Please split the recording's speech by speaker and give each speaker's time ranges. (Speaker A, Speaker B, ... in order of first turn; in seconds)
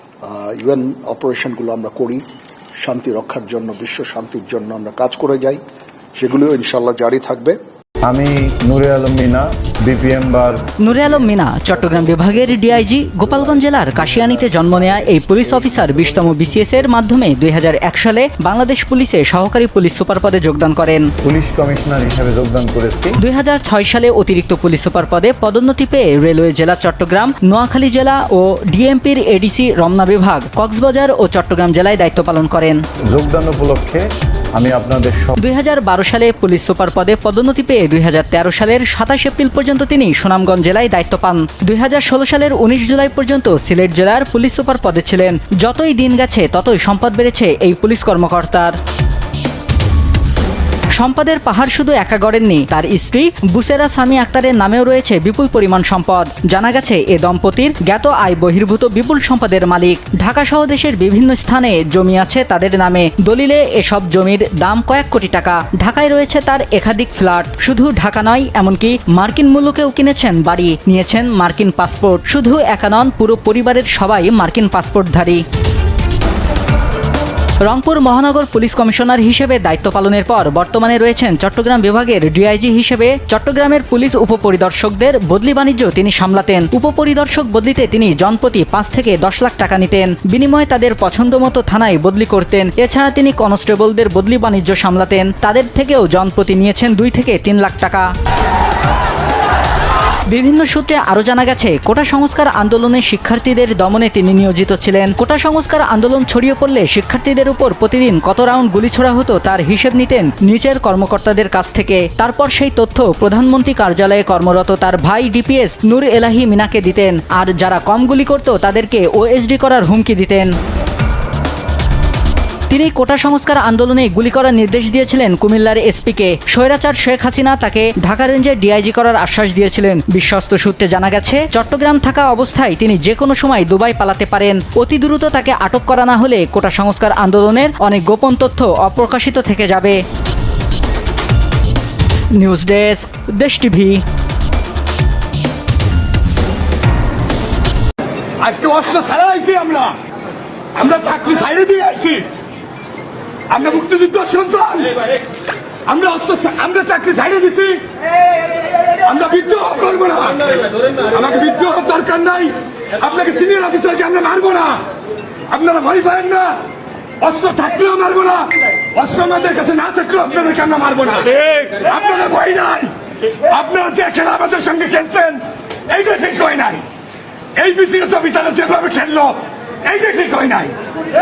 Speaker A: 0.2-2.2, 2.8-5.6, 6.2-7.6
Speaker B: 8.0-16.9, 21.2-23.1, 33.1-34.0, 34.5-35.4
Speaker C: 10.8-21.1, 23.2-32.8, 35.4-48.7, 51.0-75.4, 77.6-98.0, 100.3-120.5, 122.7-140.0, 142.3-144.0
Speaker D: 148.4-149.9, 150.7-152.3, 153.5-154.9, 155.8-157.8, 159.0-164.9, 165.5-166.6, 167.2-172.9, 173.5-176.8, 177.6-180.8